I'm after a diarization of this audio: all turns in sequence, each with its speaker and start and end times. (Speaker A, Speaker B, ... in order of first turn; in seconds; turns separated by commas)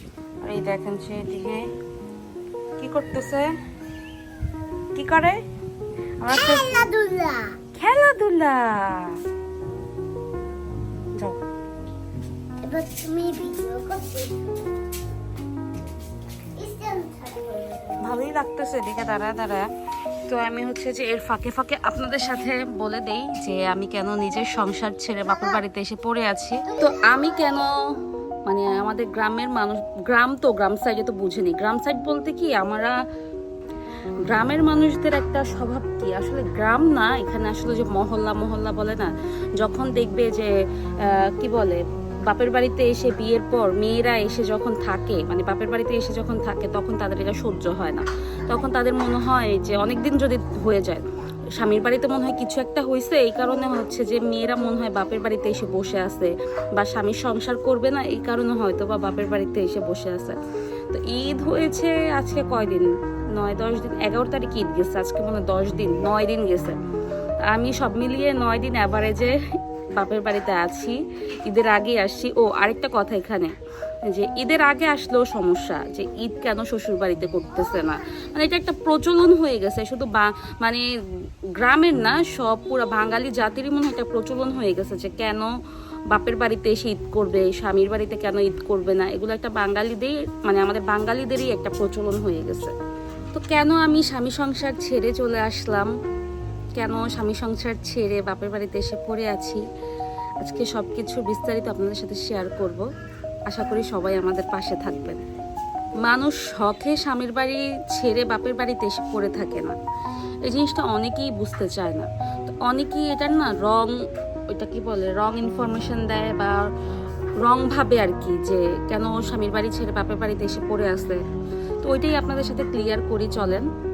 Speaker A: 0.4-1.7, Speaker A: 2.8-3.5, Speaker A: 5.0-5.4, Speaker A: 6.2-6.8, Speaker B: 6.3-7.6, Speaker A: 7.8-9.2, Speaker B: 12.6-14.7, Speaker B: 16.6-18.2, Speaker A: 18.0-19.7, Speaker A: 20.3-27.8, Speaker B: 26.6-27.6, Speaker A: 28.5-32.9, Speaker A: 34.3-40.5, Speaker A: 41.1-51.0, Speaker A: 51.6-60.4, Speaker A: 60.9-66.8, Speaker A: 67.5-69.4, Speaker A: 70.0-73.5, Speaker A: 74.1-80.8, Speaker A: 81.6-85.5, Speaker A: 86.1-92.7, Speaker A: 93.3-95.9, Speaker A: 96.8-99.6, Speaker A: 100.4-102.8, Speaker A: 103.5-105.2, Speaker A: 106.0-109.8, Speaker A: 110.4-113.9, Speaker A: 114.5-116.6, Speaker A: 117.4-121.2, Speaker A: 121.8-123.7